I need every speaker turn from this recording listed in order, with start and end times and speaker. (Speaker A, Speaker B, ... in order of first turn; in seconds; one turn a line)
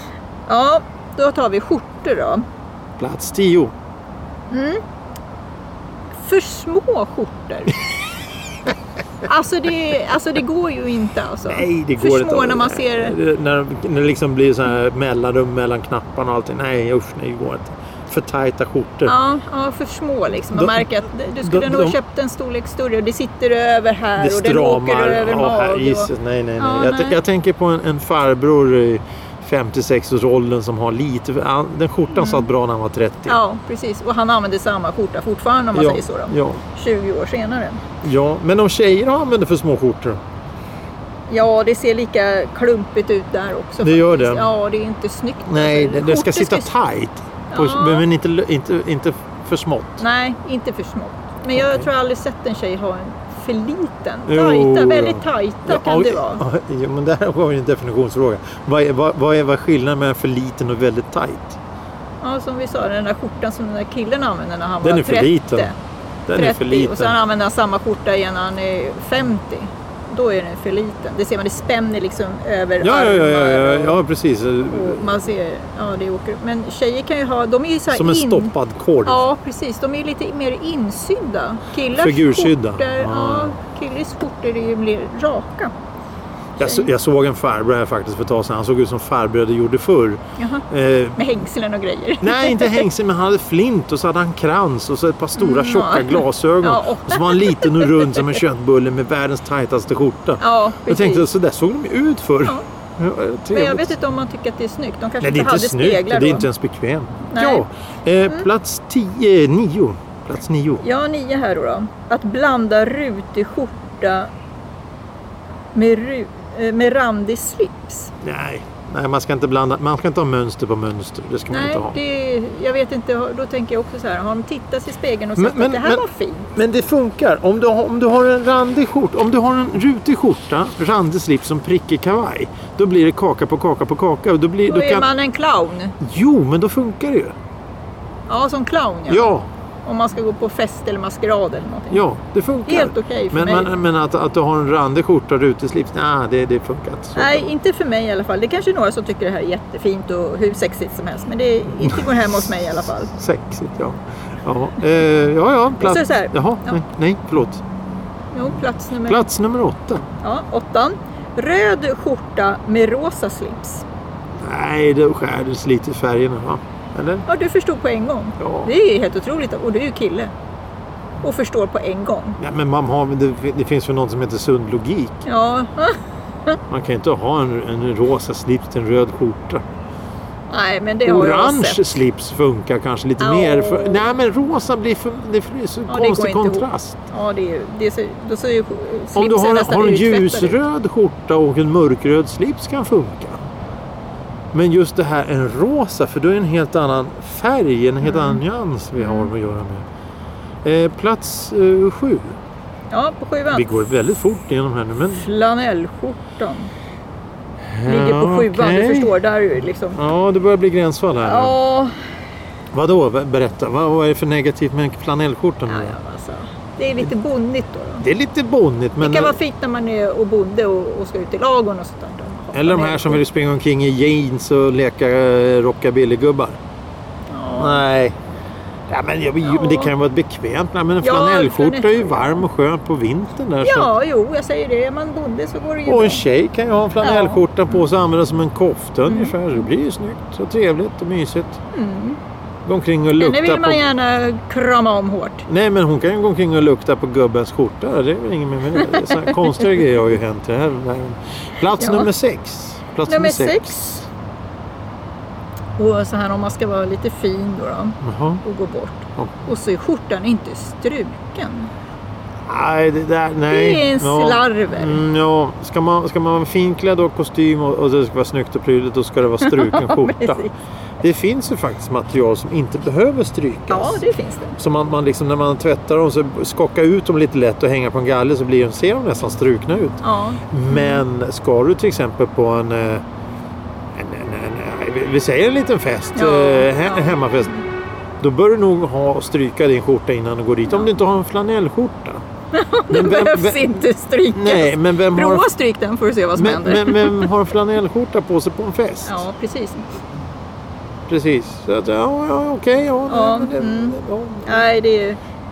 Speaker A: 0.5-2.5
Speaker B: 3.0-3.7
Speaker A: 4.5-4.8
Speaker A: 6.2-7.8
Speaker A: 9.2-13.2
Speaker B: 11.4-19.1
Speaker A: 19.1-27.2
Speaker B: 20.5-22.0
Speaker B: 24.2-33.4
Speaker A: 32.2-32.5
Speaker A: 33.3-37.8
Speaker B: 35.7-36.6
Speaker B: 38.0-40.2
Speaker A: 41.3-46.7
Speaker B: 43.8-44.5
Speaker B: 45.5-50.0
Speaker A: 47.5-48.0
Speaker A: 50.0-56.4
Speaker B: 51.5-51.9
Speaker B: 54.3-61.6
Speaker A: 62.2-65.8
Speaker B: 64.8-65.7
Speaker B: 66.3-67.2
Speaker A: 66.3-74.0
Speaker B: 72.8-75.2
Speaker A: 74.7-78.5
Speaker B: 77.9-79.2
Speaker A: 79.0-85.7
Speaker B: 81.9-83.6
Speaker B: 86.6-91.3
Speaker A: 86.6-86.9
Speaker A: 90.4-92.9
Speaker B: 92.2-103.9
Speaker A: 95.4-98.4
Speaker A: 100.4-101.3
Speaker A: 103.5-106.5
Speaker B: 105.2-110.8
Speaker A: 107.3-107.7
Speaker A: 110.8-114.3
Speaker A: 115.7-118.1
Speaker B: 118.2-122.0
Speaker A: 121.5-126.5
Speaker B: 125.4-135.1
Speaker A: 134.7-136.0
Speaker B: 136.0-137.3
Speaker A: 138.3-139.3
Speaker B: 139.1-139.5
Speaker A: 139.8-142.0
Speaker B: 141.9-147.5
Speaker A: 142.7-143.7
Speaker A: 147.2-153.1
Speaker B: 151.8-152.4
Speaker B: 153.1-157.6
Speaker A: 155.8-156.8
Speaker A: 158.3-159.2
Speaker B: 159.0-160.1
Speaker A: 160.2-163.8
Speaker B: 164.4-167.3
Speaker A: 167.3-170.3
Speaker B: 168.4-168.7
Speaker A: 171.2-172.4
Speaker B: 172.4-175.2
Speaker A: 175.2-176.0
Speaker B: 176.7-179.6
Speaker A: 180.5-182.0
Speaker B: 181.1-187.0
Speaker A: 183.2-184.1
Speaker A: 185.9-190.6
Speaker B: 189.2-193.4
Speaker B: 194.5-199.9
Speaker A: 198.0-198.4
Speaker A: 199.0-199.3
Speaker B: 200.6-202.4
Speaker A: 202.9-203.8
Speaker B: 203.5-205.3
Speaker A: 205.1-206.7
Speaker B: 207.6-209.2
Speaker A: 207.8-210.0
Speaker B: 209.9-211.6
Speaker A: 211.2-212.0
Speaker B: 212.7-216.0
Speaker A: 215.7-218.1
Speaker B: 218.0-219.4
Speaker A: 219.0-223.2
Speaker B: 222.5-226.6
Speaker A: 227.3-227.8
Speaker B: 227.6-228.2
Speaker B: 228.9-233.9
Speaker A: 229.4-229.9
Speaker A: 231.0-232.4
Speaker A: 233.6-236.2
Speaker B: 235.8-241.6
Speaker A: 237.0-237.5
Speaker A: 239.1-239.3
Speaker A: 241.7-242.2
Speaker B: 242.7-243.9
Speaker A: 243.2-245.5
Speaker B: 245.5-254.1
Speaker A: 248.7-249.8
Speaker A: 251.8-252.1
Speaker A: 253.1-253.9
Speaker A: 255.8-261.7
Speaker B: 258.0-258.4
Speaker B: 262.5-270.5
Speaker A: 263.5-265.0
Speaker A: 269.4-270.5
Speaker B: 271.0-274.0
Speaker A: 273.7-274.6
Speaker B: 274.6-283.0
Speaker A: 280.0-281.1
Speaker B: 283.9-287.6
Speaker A: 286.1-287.6
Speaker B: 288.2-292.2
Speaker A: 292.5-297.3
Speaker B: 292.9-295.5
Speaker B: 296.4-299.3
Speaker A: 299.1-299.9
Speaker B: 301.1-304.6
Speaker A: 303.1-305.2